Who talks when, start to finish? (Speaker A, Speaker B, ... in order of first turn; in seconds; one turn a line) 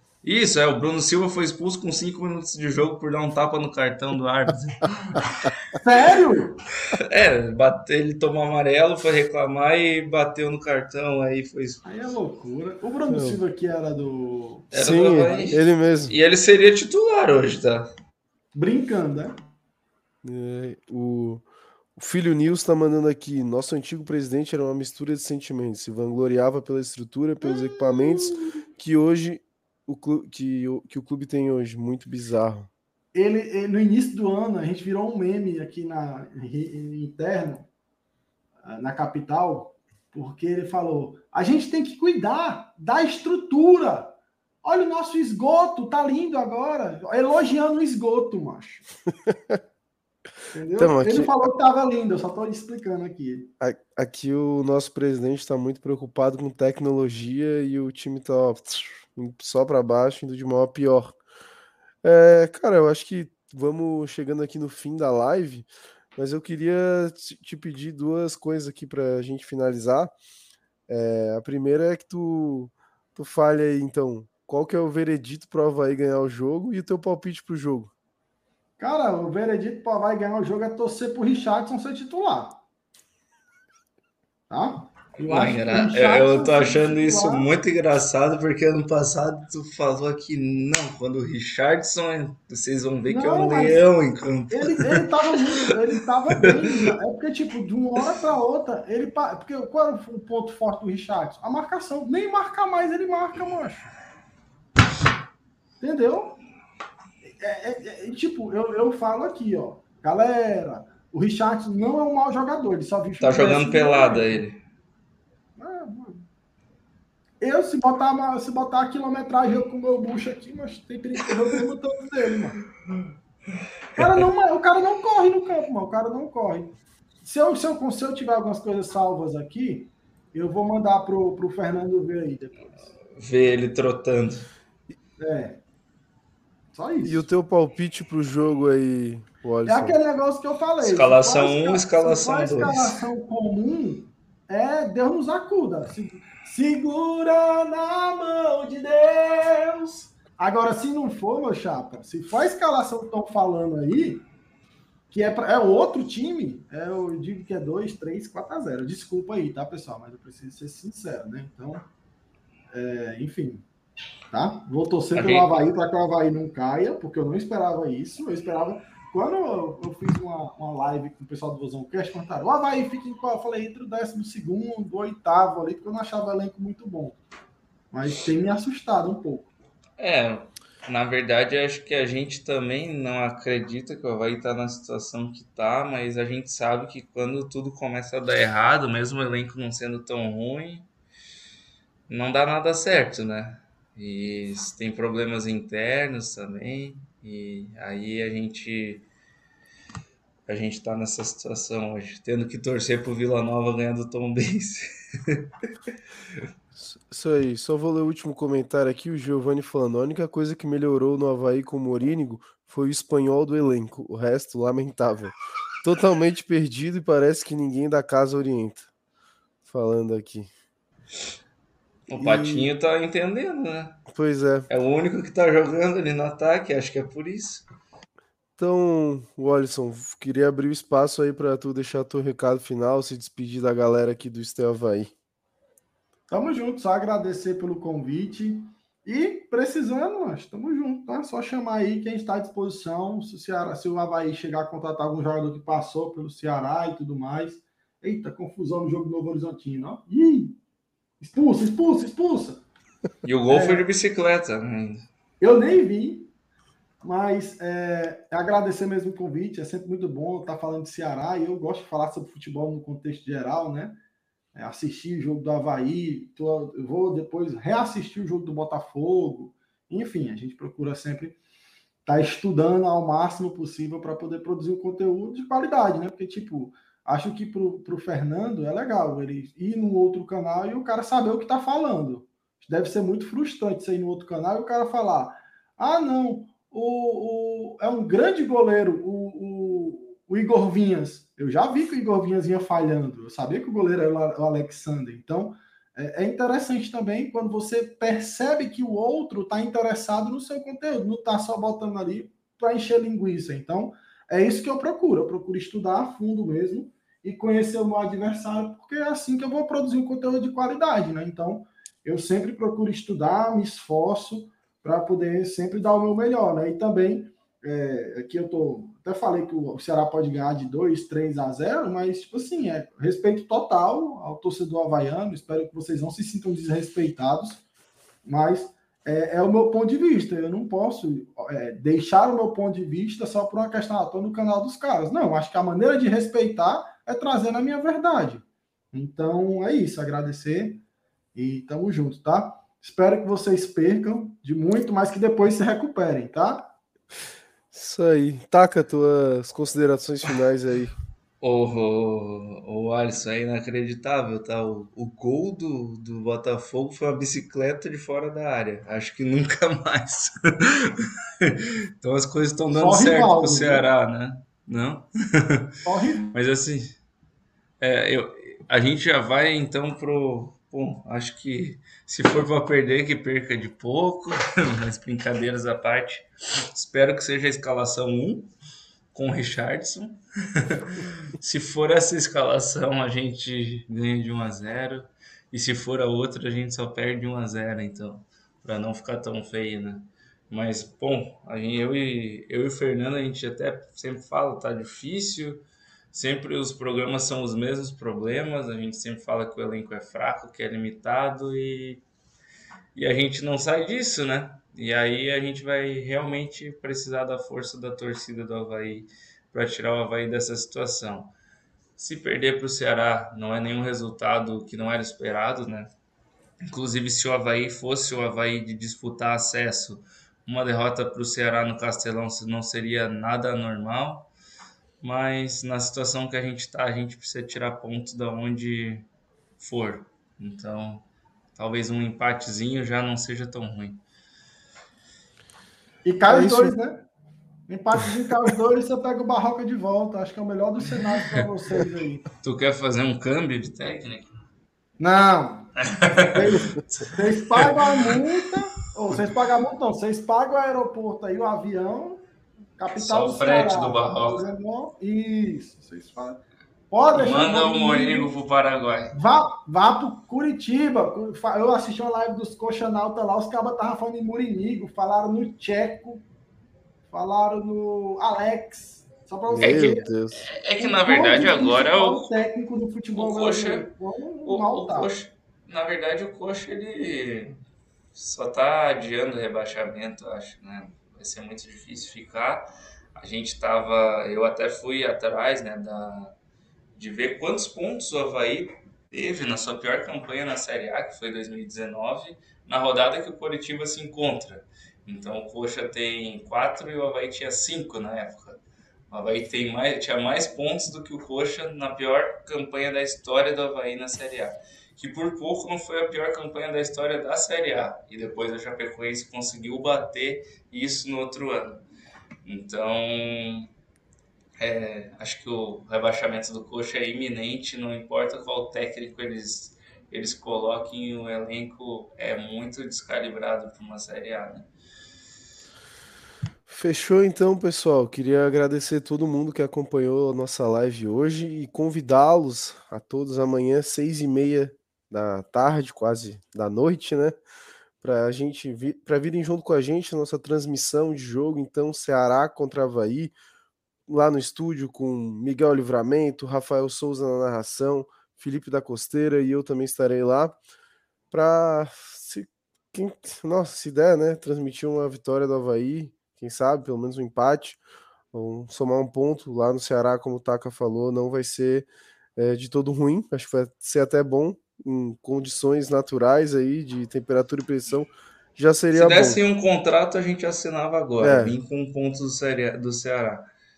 Speaker A: 0.2-5.5
Speaker B: 5.7-6.6
Speaker A: 6.9-12.0
Speaker B: 11.8-15.6
Speaker C: 13.1-13.4
Speaker A: 14.7-17.9
Speaker C: 14.7-16.1
Speaker B: 18.6-19.4
Speaker C: 20.2-21.4
Speaker C: 22.0-32.7
Speaker B: 27.4-28.6
Speaker B: 33.1-37.7
Speaker B: 38.6-48.9
Speaker C: 49.3-49.6
Speaker B: 50.5-53.5
Speaker C: 50.8-51.3
Speaker C: 53.6-61.1
Speaker C: 62.0-70.1
Speaker C: 70.9-77.9
Speaker B: 78.8-82.6
Speaker B: 84.5-87.5
Speaker A: 85.2-95.1
Speaker B: 93.1-93.8
Speaker B: 94.5-103.9
Speaker B: 105.8-106.4
Speaker B: 107.2-114.4
Speaker A: 113.2-114.6
Speaker B: 115.6-116.2
Speaker B: 117.4-122.6
Speaker B: 124.0-132.9
Speaker A: 133.1-134.5
Speaker B: 135.2-135.6
Speaker B: 136.7-137.3
Speaker C: 137.1-140.0
Speaker B: 139.7-154.3
Speaker A: 140.8-143.0
Speaker B: 155.1-161.9
Speaker B: 162.7-163.6
Speaker B: 164.3-177.2
Speaker A: 165.1-165.6
Speaker B: 177.9-179.5
Speaker A: 180.0-190.9
Speaker A: 192.1-199.1
Speaker A: 200.5-205.5
Speaker C: 206.7-218.9
Speaker C: 219.6-220.5
Speaker C: 222.1-222.7
Speaker A: 222.1-224.0
Speaker C: 224.1-224.7
Speaker A: 224.7-227.6
Speaker C: 228.6-235.1
Speaker B: 236.3-250.6
Speaker B: 251.2-252.6
Speaker A: 253.2-255.1
Speaker B: 253.5-253.8
Speaker B: 255.4-256.3
Speaker B: 257.0-264.0
Speaker B: 264.6-271.4
Speaker B: 272.1-327.6
Speaker B: 328.2-340.8
Speaker B: 341.4-346.7
Speaker C: 347.7-350.9
Speaker A: 351.4-365.7
Speaker B: 362.7-363.9
Speaker B: 365.9-366.3
Speaker A: 366.3-366.9
Speaker A: 367.8-378.5
Speaker A: 379.1-402.0
Speaker A: 402.9-411.3
Speaker A: 412.0-415.9
Speaker A: 416.7-424.3
Speaker A: 425.0-429.1
Speaker A: 429.6-434.0
Speaker B: 436.1-437.0
Speaker C: 436.3-436.8
Speaker B: 437.7-442.2
Speaker A: 442.4-444.3
Speaker B: 445.0-445.7
Speaker A: 445.8-448.4
Speaker B: 446.3-452.2
Speaker B: 452.8-458.3
Speaker A: 452.9-454.4
Speaker A: 457.1-459.1
Speaker B: 459.1-466.2
Speaker B: 467.1-470.1
Speaker C: 469.5-470.5
Speaker A: 469.6-472.3
Speaker B: 470.8-475.1
Speaker A: 473.1-473.9
Speaker A: 474.4-477.6
Speaker A: 478.1-486.4
Speaker A: 486.9-511.8
Speaker A: 512.4-513.7
Speaker A: 514.6-524.7
Speaker C: 526.7-537.4
Speaker C: 538.0-543.3
Speaker C: 544.1-550.6
Speaker C: 551.3-557.8
Speaker C: 558.3-569.4
Speaker A: 568.9-573.5
Speaker C: 571.2-571.6